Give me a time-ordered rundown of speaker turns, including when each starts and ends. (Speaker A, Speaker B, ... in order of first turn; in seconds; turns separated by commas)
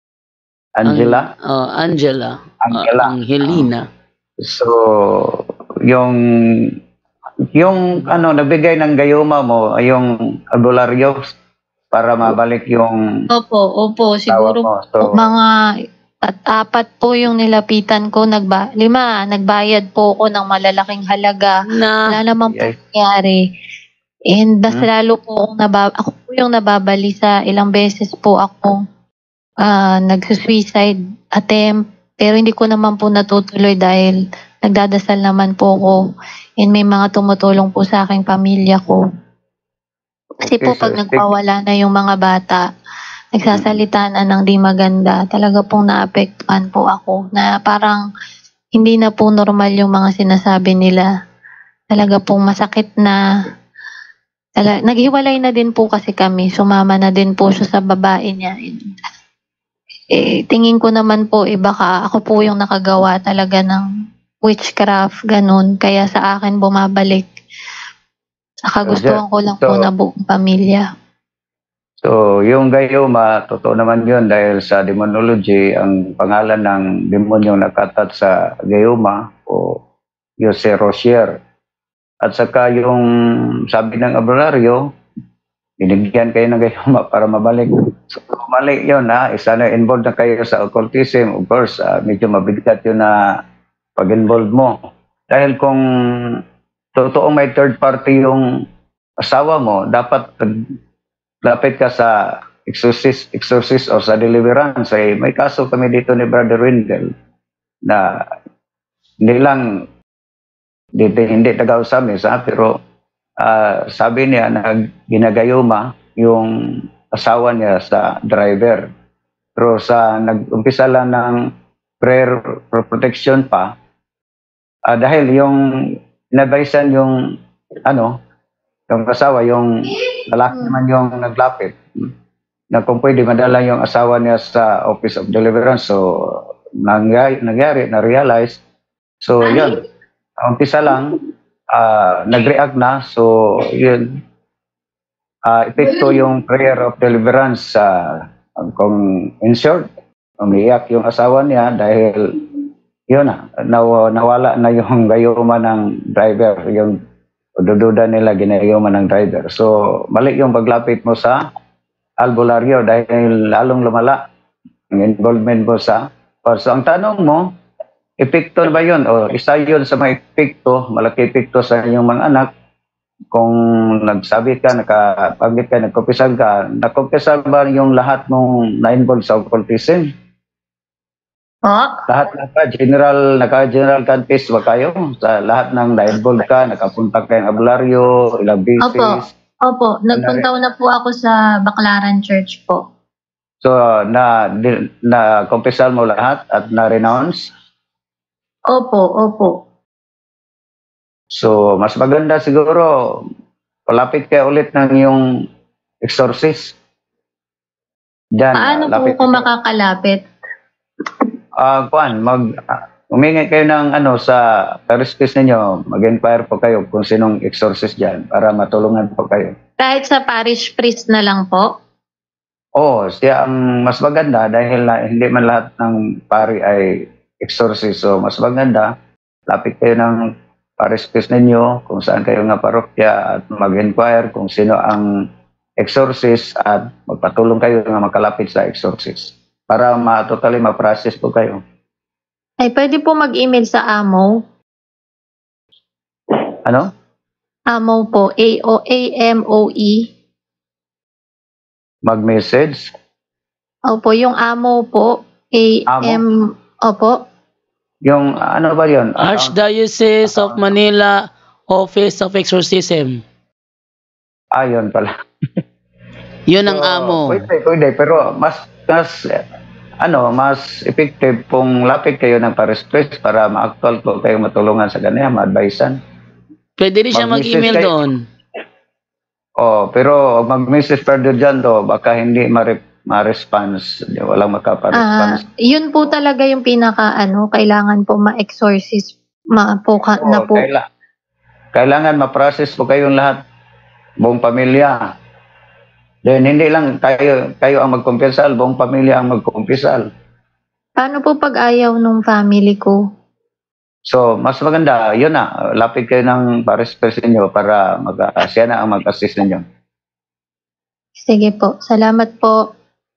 Speaker A: 0.8-1.3, Speaker B: 0.8-3.8, Speaker A: 2.6-3.7, Speaker A: 4.4-6.7, Speaker A: 7.5-11.2, Speaker A: 11.9-13.0, Speaker C: 13.3-15.4, Speaker A: 14.3-15.2, Speaker C: 16.2-21.5, Speaker B: 21.7-22.2, Speaker C: 22.1-23.4, Speaker A: 22.5-22.7, Speaker C: 24.3-28.8, Speaker C: 29.6-36.0, Speaker C: 36.6-39.0, Speaker C: 40.4-42.6, Speaker A: 40.5-41.2, Speaker C: 43.3-48.0, Speaker A: 43.5-43.8, Speaker C: 48.7-51.1, Speaker C: 51.9-53.2, Speaker C: 54.6-58.8, Speaker C: 60.1-63.8, Speaker C: 64.4-67.3, Speaker C: 68.7-70.8, Speaker A: 68.9-69.8, Speaker A: 72.0-79.8, Speaker A: 80.4-81.4, Speaker A: 82.2-83.0, Speaker A: 83.7-84.8, Speaker A: 85.8-93.1, Speaker A: 94.0-94.7, Speaker A: 95.3-96.4, Speaker A: 96.9-98.4, Speaker A: 99.2-100.5, Speaker A: 101.4-107.1, Speaker A: 107.9-108.2, Speaker A: 109.2-109.6, Speaker A: 111.0-112.8, Speaker A: 113.4-116.5, Speaker A: 117.1-118.9, Speaker A: 119.6-121.4, Speaker A: 122.0-123.7, Speaker A: 124.9-125.6, Speaker A: 126.3-127.2, Speaker A: 127.9-128.2, Speaker A: 128.9-129.7, Speaker A: 130.3-131.8, Speaker A: 132.7-138.6, Speaker A: 139.2-139.8, Speaker A: 140.4-141.2, Speaker A: 141.7-144.1, Speaker A: 145.5-149.9, Speaker A: 150.4-152.3, Speaker A: 153.1-156.9, Speaker A: 157.6-161.4, Speaker A: 162.2-164.2, Speaker A: 164.9-167.5, Speaker A: 168.2-172.5, Speaker A: 173.3-180.1, Speaker C: 181.7-182.0, Speaker A: 182.1-189.3, Speaker C: 188.8-192.8, Speaker A: 190.1-190.5, Speaker A: 193.6-197.5, Speaker C: 198.7-199.5, Speaker A: 201.3-202.9, Speaker A: 203.9-205.2, Speaker A: 206.0-206.7, Speaker A: 208.4-209.4, Speaker C: 208.5-210.2, Speaker A: 211.6-212.4, Speaker A: 213.1-219.5, Speaker C: 219.8-221.7, Speaker A: 222.8-228.9, Speaker A: 229.5-230.2, Speaker A: 230.8-235.1, Speaker A: 235.8-241.6, Speaker C: 242.6-244.3, Speaker C: 247.7-250.0, Speaker A: 252.0-252.9, Speaker C: 253.9-256.3, Speaker A: 255.9-256.2, Speaker C: 256.9-257.1, Speaker A: 258.1-259.5, Speaker B: 259.2-261.1, Speaker A: 260.2-260.7, Speaker B: 261.7-263.2, Speaker A: 264.5-265.1, Speaker B: 266.5-267.4, Speaker A: 266.6-269.1, Speaker A: 270.0-276.0, Speaker B: 276.8-278.1, Speaker A: 277.1-277.9, Speaker A: 279.6-285.4, Speaker C: 285.0-290.7, Speaker A: 290.2-290.8, Speaker A: 291.7-293.4, Speaker A: 294.2-294.9, Speaker A: 296.2-300.1, Speaker C: 301.0-302.9, Speaker A: 304.1-309.6, Speaker C: 311.2-312.6